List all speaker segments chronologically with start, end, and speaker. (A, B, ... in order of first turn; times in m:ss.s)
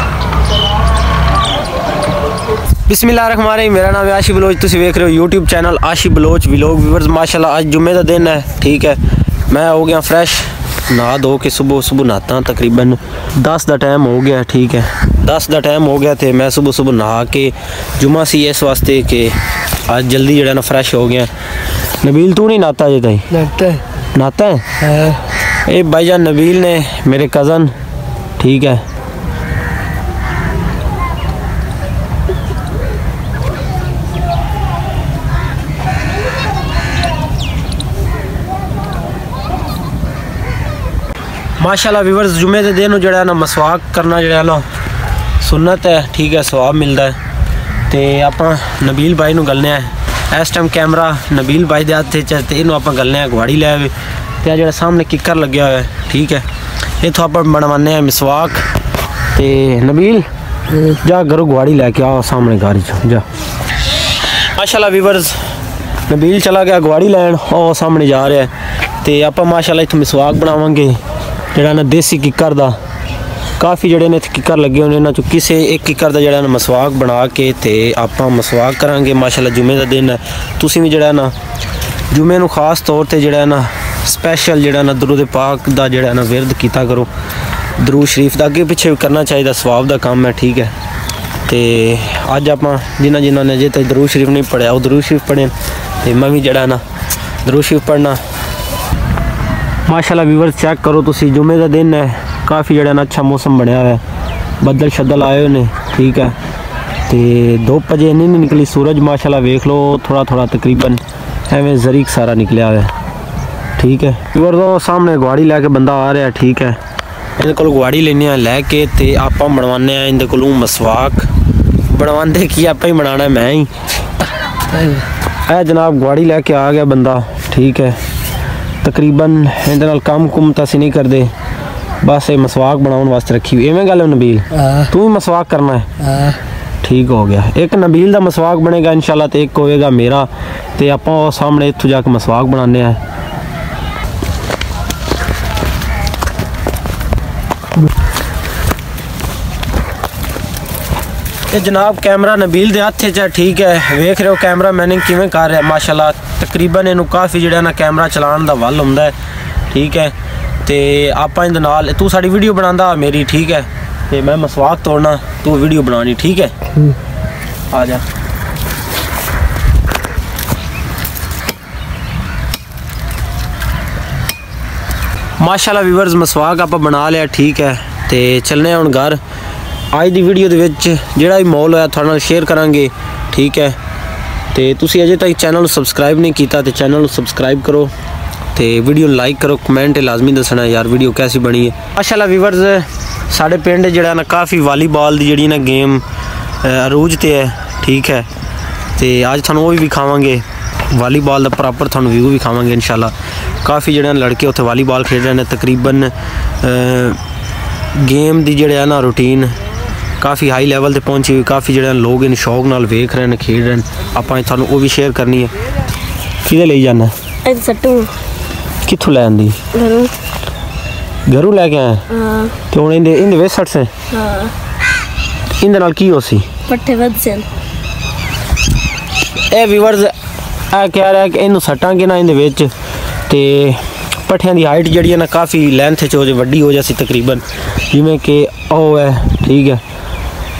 0:02.9-0:21.3 A
0:22.0-0:25.1 A
0:25.6-0:27.7 A
0:28.4-0:28.8 A
0:41.6-0:44.6 A
0:45.4-0:47.2 A
0:47.9-0:56.4 A
0:57.0-0:58.7 A
0:59.3-1:03.2 A
1:04.5-1:05.5 A
1:06.1-1:11.0 A
1:11.5-1:12.8 A
1:13.6-1:21.3 A
1:22.1-1:27.1 A
1:27.8-1:30.7 A
1:31.5-1:36.8 A
1:37.4-1:38.2 A
1:39.8-1:44.0 A
1:44.6-1:46.4 A
1:47.1-1:52.9 A
1:53.8-1:56.8 A
1:57.4-2:01.3 A
2:01.8-2:03.7 A
2:05.5-2:08.0 A
2:08.8-2:11.3 A
2:12.0-2:15.9 A
2:16.8-2:23.0 A
2:31.5-2:39.1 A
2:39.7-2:46.5 A
2:47.7-2:48.0 A
2:55.4-2:59.2 A
2:59.9-3:03.8 A
3:04.5-3:07.9 A
3:08.5-3:16.0 A
3:16.6-3:18.3 A
3:19.0-3:27.2 A
3:27.9-3:29.5 A
3:30.2-3:35.5 A
3:36.4-3:37.1 A
3:37.4-3:38.1 B
3:38.8-3:39.6 A
3:39.7-3:40.1 B
3:41.3-3:42.0 A
3:42.1-3:42.5 B
3:42.7-3:43.9 A
3:44.1-3:44.5 B
3:45.6-3:46.4 A
3:46.7-3:47.5 B
3:49.5-3:50.1 A
3:50.7-3:52.7 A
3:53.3-3:59.8 A